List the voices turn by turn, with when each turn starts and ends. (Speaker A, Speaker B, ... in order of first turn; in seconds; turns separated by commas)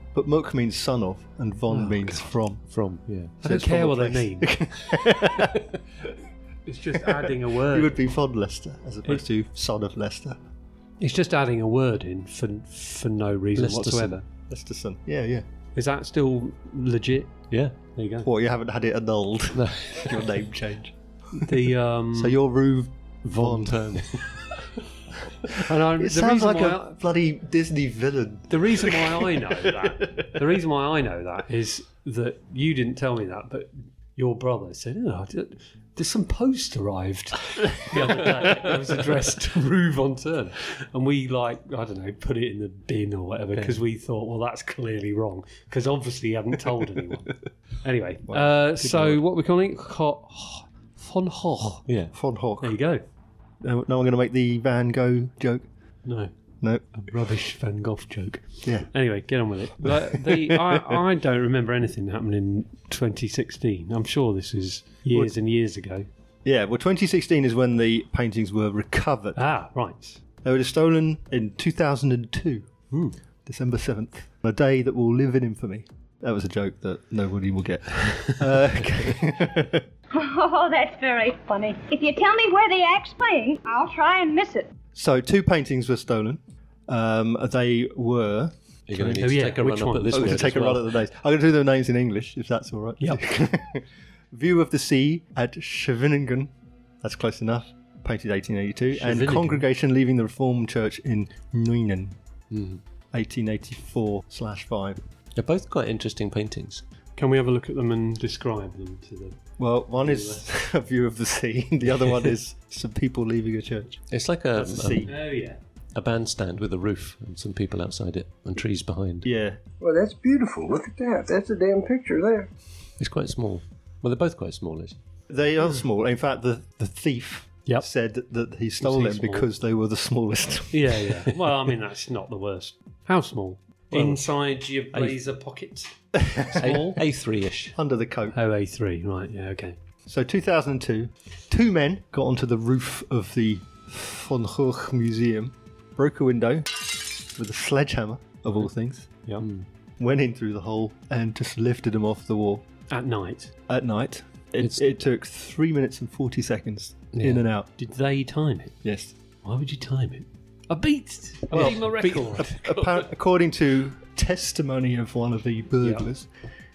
Speaker A: 0.1-2.7, Speaker B: 1.7-2.3, Speaker C: 2.7-3.3, Speaker A: 3.4-5.6, Speaker B: 3.4-4.7, Speaker B: 6.7-8.1, Speaker A: 6.9-10.4, Speaker B: 11.0-14.2, Speaker C: 13.6-14.2, Speaker A: 14.5-15.4, Speaker B: 15.8-18.3, Speaker A: 18.2-21.5, Speaker C: 19.6-20.3, Speaker B: 21.4-22.4, Speaker A: 22.1-24.2, Speaker C: 23.2-24.2, Speaker B: 25.5-26.9, Speaker A: 25.9-30.3, Speaker B: 28.5-51.8, Speaker C: 43.6-43.8, Speaker A: 48.3-49.2, Speaker C: 51.8-52.1, Speaker A: 52.1-52.8, Speaker B: 52.6-53.0, Speaker A: 53.6-55.7, Speaker B: 56.0-56.3, Speaker A: 56.6-56.9, Speaker B: 56.9-66.1, Speaker A: 58.6-58.9, Speaker A: 59.8-61.0, Speaker A: 66.4-69.4, Speaker B: 69.3-70.2, Speaker A: 70.4-72.7, Speaker B: 72.9-73.2, Speaker A: 73.5-79.9, Speaker D: 80.1-84.7, Speaker A: 84.9-89.3, Speaker C: 88.9-90.8, Speaker B: 89.0-90.7, Speaker A: 90.1-102.2, Speaker B: 98.9-99.7, Speaker C: 102.5-102.8, Speaker A: 103.1-105.0, Speaker C: 105.4-106.8, Speaker B: 107.2-109.4, Speaker A: 109.6-115.1, Speaker B: 110.0-110.4, Speaker C: 114.1-115.2, Speaker B: 115.1-115.6, Speaker C: 115.9-119.3, Speaker A: 119.2-119.6, Speaker E: 119.8-122.5, Speaker C: 123.0-125.0, Speaker A: 125.3-131.1, Speaker B: 128.8-129.5, Speaker B: 130.7-137.0, Speaker C: 133.9-134.3, Speaker C: 134.9-135.2, Speaker A: 136.2-136.7, Speaker C: 136.6-137.8, Speaker A: 137.8-138.4, Speaker B: 138.3-139.8, Speaker A: 140.1-149.1, Speaker C: 149.4-149.7, Speaker A: 150.0-152.7, Speaker B: 152.9-153.5, Speaker A: 153.7-157.7, Speaker C: 154.6-154.9, Speaker C: 157.2-157.4, Speaker B: 157.8-158.8, Speaker A: 158.8-159.1, Speaker B: 159.4-162.9, Speaker A: 161.5-166.3, Speaker C: 161.5-162.3, Speaker B: 165.8-166.1